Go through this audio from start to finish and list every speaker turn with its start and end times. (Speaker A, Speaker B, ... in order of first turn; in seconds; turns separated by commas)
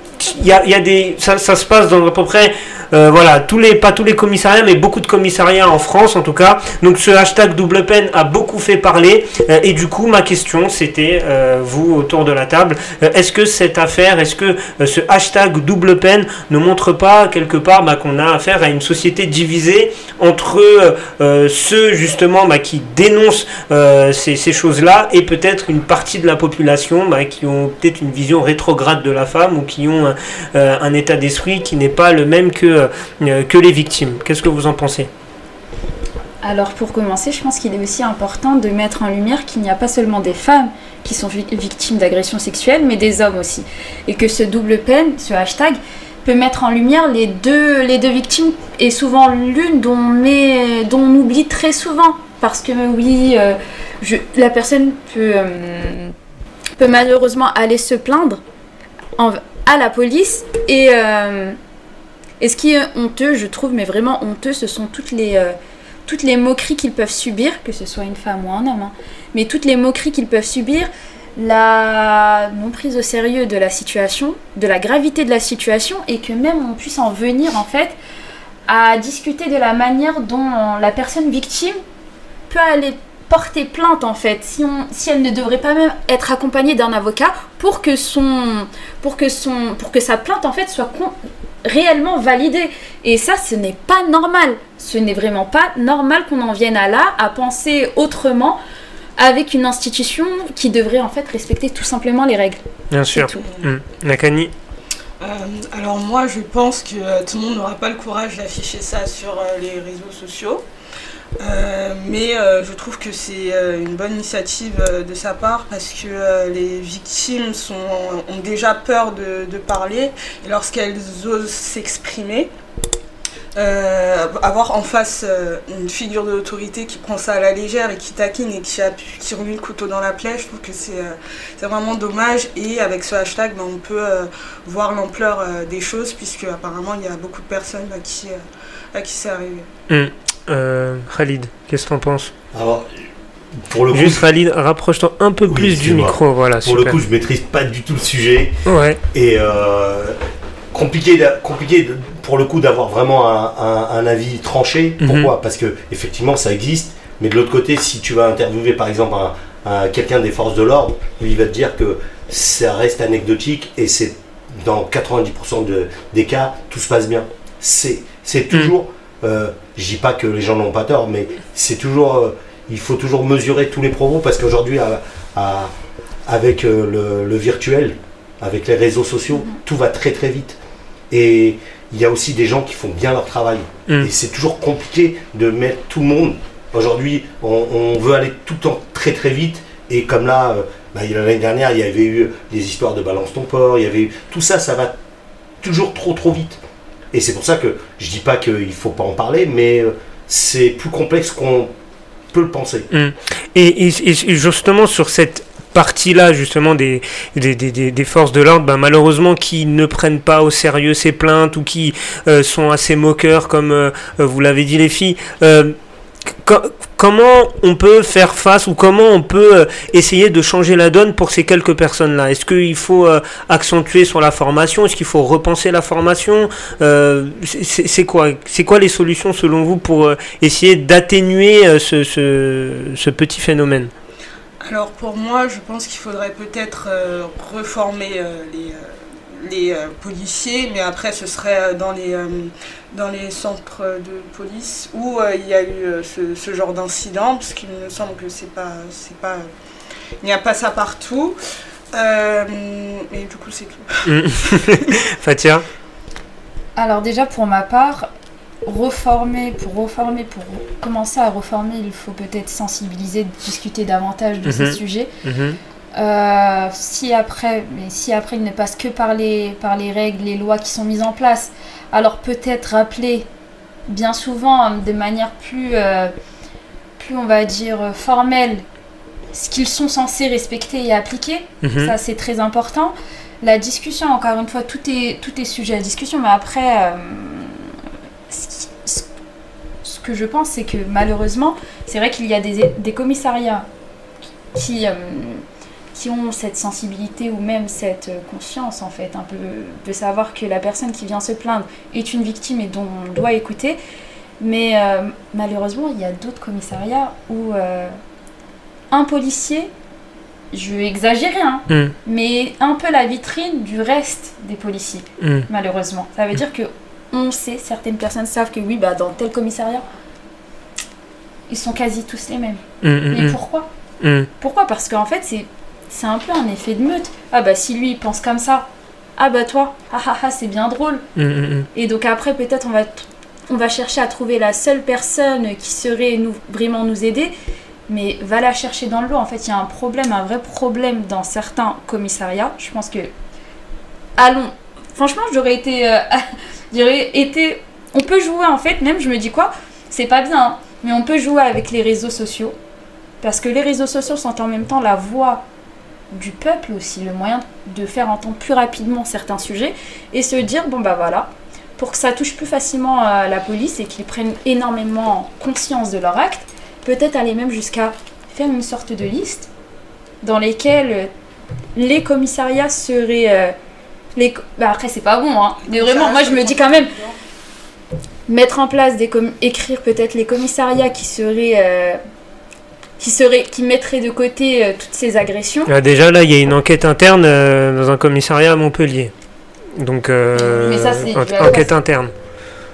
Speaker A: 0.2-35.1, Speaker B: 36.4-56.1, Speaker B: 56.8-58.4, Speaker B: 59.2-61.6, Speaker B: 62.4-65.5, Speaker B: 66.1-78.0, Speaker B: 78.7-81.8, Speaker B: 82.5-91.1, Speaker B: 91.7-98.6, Speaker B: 99.2-103.5, Speaker A: 102.9-104.5, Speaker C: 103.4-103.7, Speaker C: 105.2-110.7, Speaker C: 111.4-122.5, Speaker C: 123.6-139.7, Speaker A: 139.9-142.3, Speaker D: 142.5-142.9, Speaker D: 143.6-144.2, Speaker A: 143.9-147.0, Speaker D: 145.5-148.6, Speaker A: 148.7-149.0, Speaker D: 149.1-150.2, Speaker D: 150.7-175.7, Speaker A: 155.0-155.3, Speaker D: 176.3-180.6, Speaker D: 181.1-194.9, Speaker D: 195.6-196.6, Speaker D: 197.1-201.7, Speaker D: 202.3-202.9, Speaker A: 202.9-215.8, Speaker A: 216.4-233.9, Speaker C: 234.6-249.5, Speaker C: 250.2-251.3, Speaker C: 251.9-254.1, Speaker A: 254.1-255.7, Speaker B: 256.8-258.1, Speaker B: 258.6-265.1, Speaker A: 264.5-265.6, Speaker B: 266.0-273.3, Speaker B: 273.9-276.1, Speaker B: 277.0-278.6, Speaker B: 279.3-287.7, Speaker A: 281.6-281.9, Speaker B: 288.3-289.1, Speaker B: 289.8-293.7, Speaker B: 294.5-295.4, Speaker B: 295.9-303.8, Speaker B: 304.4-308.0, Speaker B: 308.9-309.7, Speaker B: 310.5-319.9, Speaker A: 311.7-311.9, Speaker A: 315.2-315.5, Speaker B: 321.5-323.7, Speaker A: 322.8-323.4, Speaker A: 324.0-324.3, Speaker B: 324.4-331.1, Speaker A: 331.2-331.7, Speaker B: 331.8-337.3, Speaker B: 337.9-343.1, Speaker B: 344.2-352.6, Speaker B: 353.2-355.4, Speaker B: 356.1-369.5, Speaker B: 370.2-371.1, Speaker B: 371.8-373.5, Speaker B: 374.2-376.9, Speaker C: 375.7-377.2, Speaker B: 378.3-382.0, Speaker B: 383.0-385.7, Speaker A: 385.7-389.1, Speaker A: 389.8-392.1, Speaker B: 390.4-391.7